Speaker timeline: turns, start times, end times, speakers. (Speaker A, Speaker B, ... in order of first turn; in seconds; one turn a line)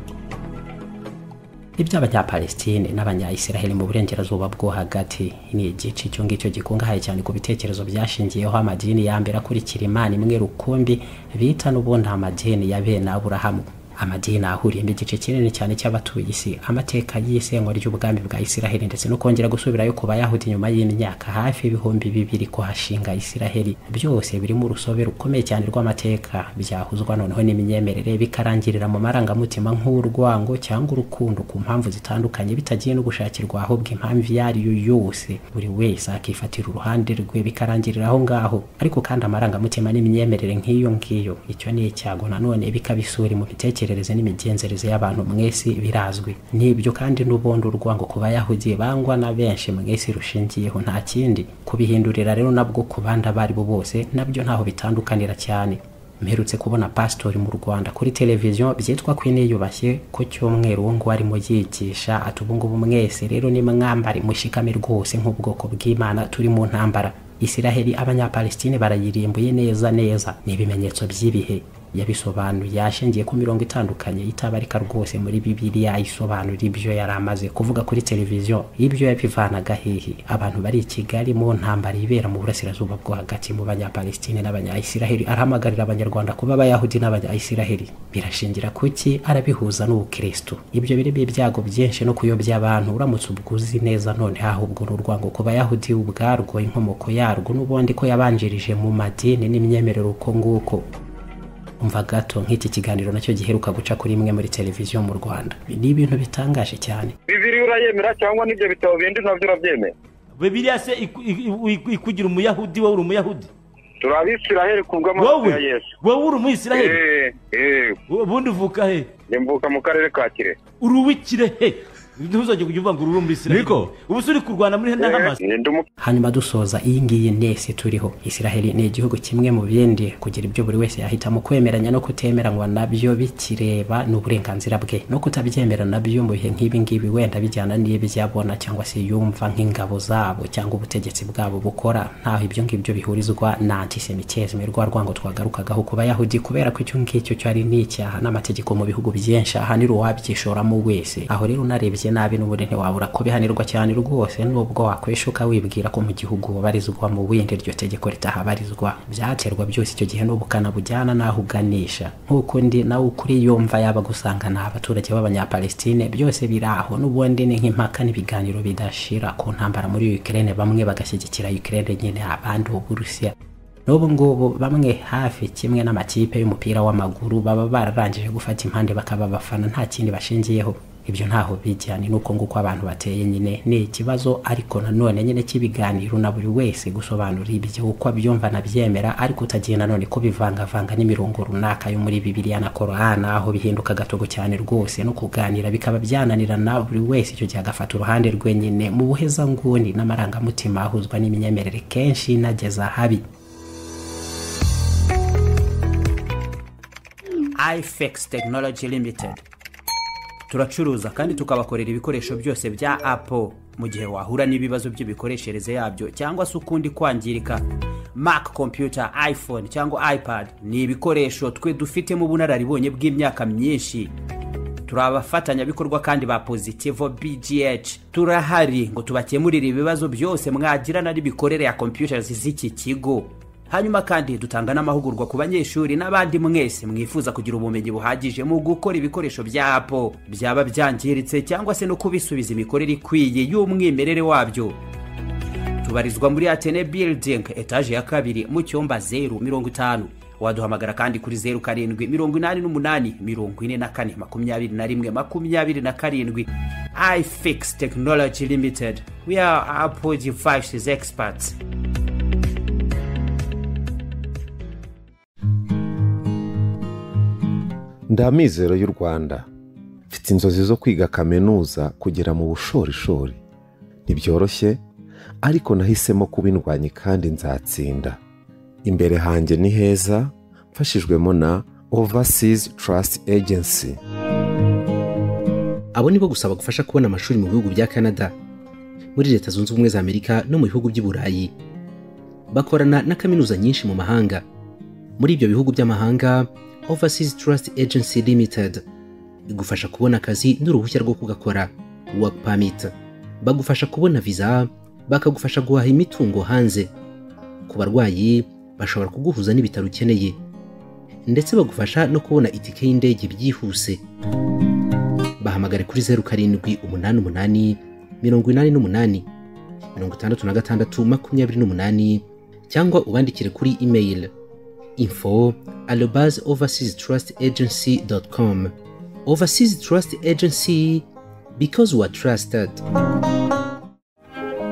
Speaker A: 1.8-100.9
Speaker A: 101.8-107.2
Speaker B: 107.3-109.9
Speaker C: 110.4-113.5
Speaker B: 114.0-115.9
Speaker C: 115.2-117.0
Speaker B: 116.7-118.0
Speaker C: 118.1-119.1
Speaker B: 119.3-120.6
Speaker C: 120.8-125.4
Speaker B: 125.0-125.8
Speaker A: 126.0-173.3
Speaker A: 173.9-203.2
Speaker A: 207.6-209.4
Speaker A: 210.5-217.6
Speaker A: 218.2-224.1
Speaker A: 224.9-244.8
Speaker A: 245.8-261.6
Speaker D: 268.1-269.5
Speaker D: 270.1-273.4
Speaker D: 274.1-274.8
Speaker D: 275.4-278.2
Speaker D: 278.8-284.0
Speaker E: 285.9-288.3
Speaker E: 289.1-291.5
Speaker E: 292.5-294.4
Speaker E: 295.2-298.8
Speaker E: 299.5-306.9
Speaker E: 307.7-310.4
Speaker E: 311.3-314.0
Speaker E: 315.4-319.3
Speaker E: 319.9-324.3
Speaker E: 325.0-328.7
Speaker E: 329.3-332.8